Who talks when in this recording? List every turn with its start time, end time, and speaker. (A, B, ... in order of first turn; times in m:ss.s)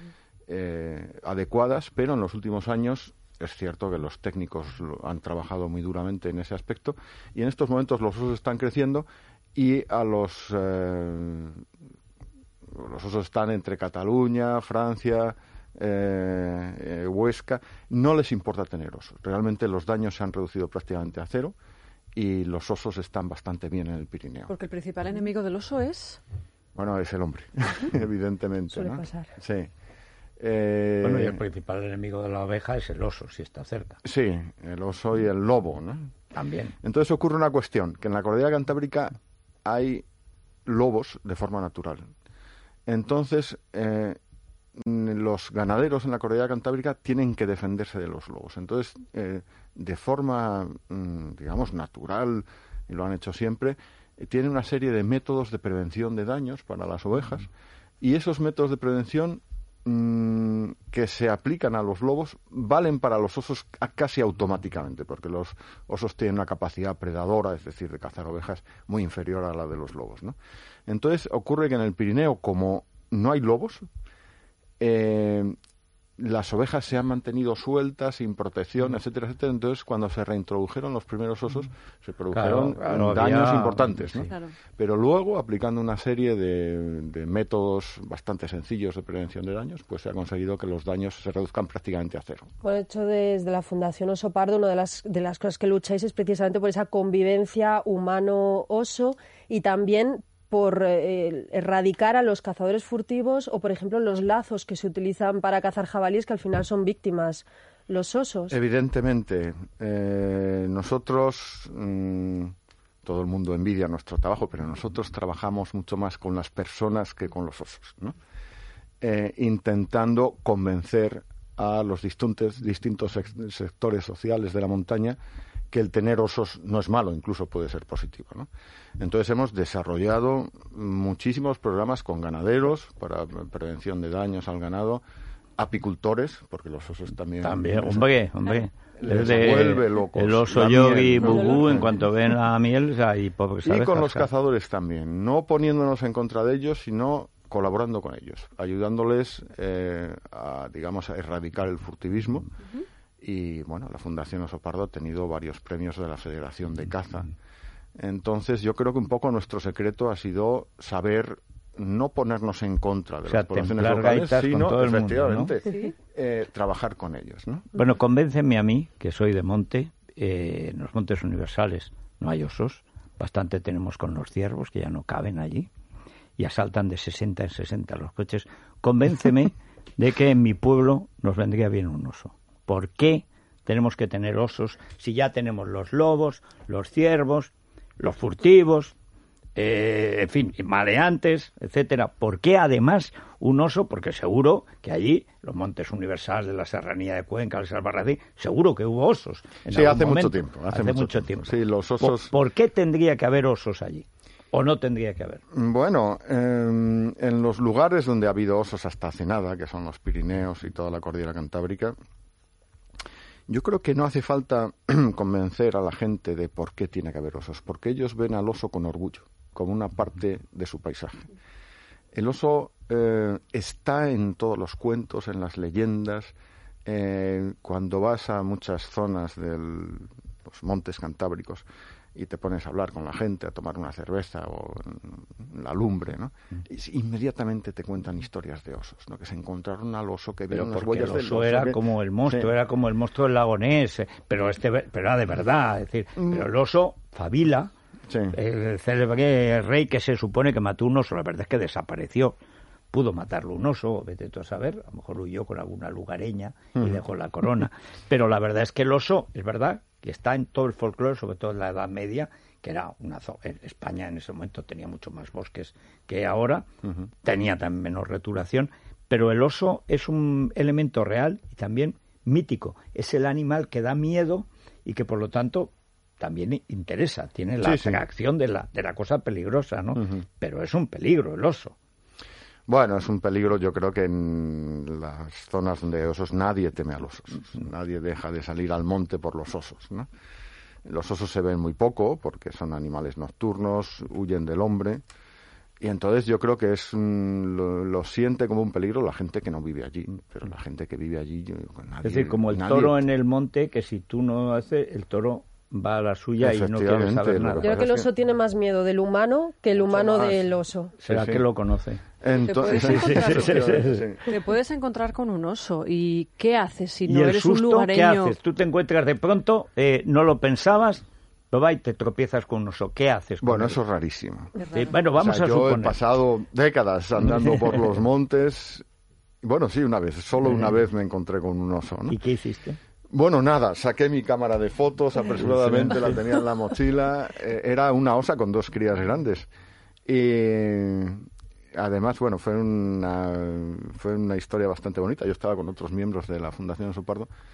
0:00.5-0:11.6 A
0:12.7-0:21.5 A
0:22.2-0:24.5 A
0:24.5-0:26.2 B
0:26.7-0:29.7 A
0:28.7-0:29.3 C
0:30.4-0:31.4 A
0:31.0-0:34.0 D
0:34.0-0:36.1 A
0:36.3-0:36.8 D
0:36.8-0:39.1 A
0:39.6-0:40.0 A
0:40.6-0:42.0 A
0:42.9-0:44.2 A
0:44.8-0:57.5 A
0:58.0-1:10.4 A
1:10.9-1:13.8 A
1:14.8-1:15.6 A
1:16.2-1:32.5 A
1:22.3-1:24.2 D
1:32.6-1:48.5 C
1:48.5-1:58.1 A
1:59.0-2:05.2 A
2:05.7-2:15.0 A
2:15.6-2:18.1 A
2:17.4-2:24.3 D
2:19.0-2:21.9 A
2:23.6-2:32.5 A
2:33.2-2:37.3 A
2:38.0-2:47.7 A
2:43.2-2:45.5 D
2:47.7-2:55.7 D
2:56.4-3:08.9 D
3:09.6-3:25.4 D
3:19.7-3:22.3 A
3:25.5-3:31.9 A
3:33.5-3:41.3 A
3:42.1-3:46.3 A
3:46.8-4:02.5 A
4:00.5-4:07.7 D
4:06.2-4:06.5 A
4:08.1-4:08.4 A
4:08.3-4:12.4 D
4:12.9-4:26.6 D
4:27.2-4:41.7 D
4:37.6-4:38.0 A
4:40.0-4:40.2 A
4:42.7-4:50.1 A
4:50.8-4:55.0 A
4:55.8-5:03.0 A
5:02.0-5:07.8 D
5:06.4-5:08.1 A
5:07.6-5:10.9 C
5:09.7-5:10.5 A
5:11.0-5:12.0 D
5:11.1-5:11.4 A
5:12.2-5:14.2 A
5:12.4-5:13.7 B
5:12.8-5:14.1 D
5:14.2-5:18.4 B
5:17.1-5:23.8 D
5:23.4-5:24.5 A
5:24.6-5:25.0 B
5:24.7-5:26.0 D
5:25.1-5:28.8 A
5:29.4-5:32.2 A
5:30.5-5:30.8 D
5:32.1-5:32.8 D
5:33.1-5:39.5 A
5:35.4-5:36.2 D
5:40.1-5:47.3 A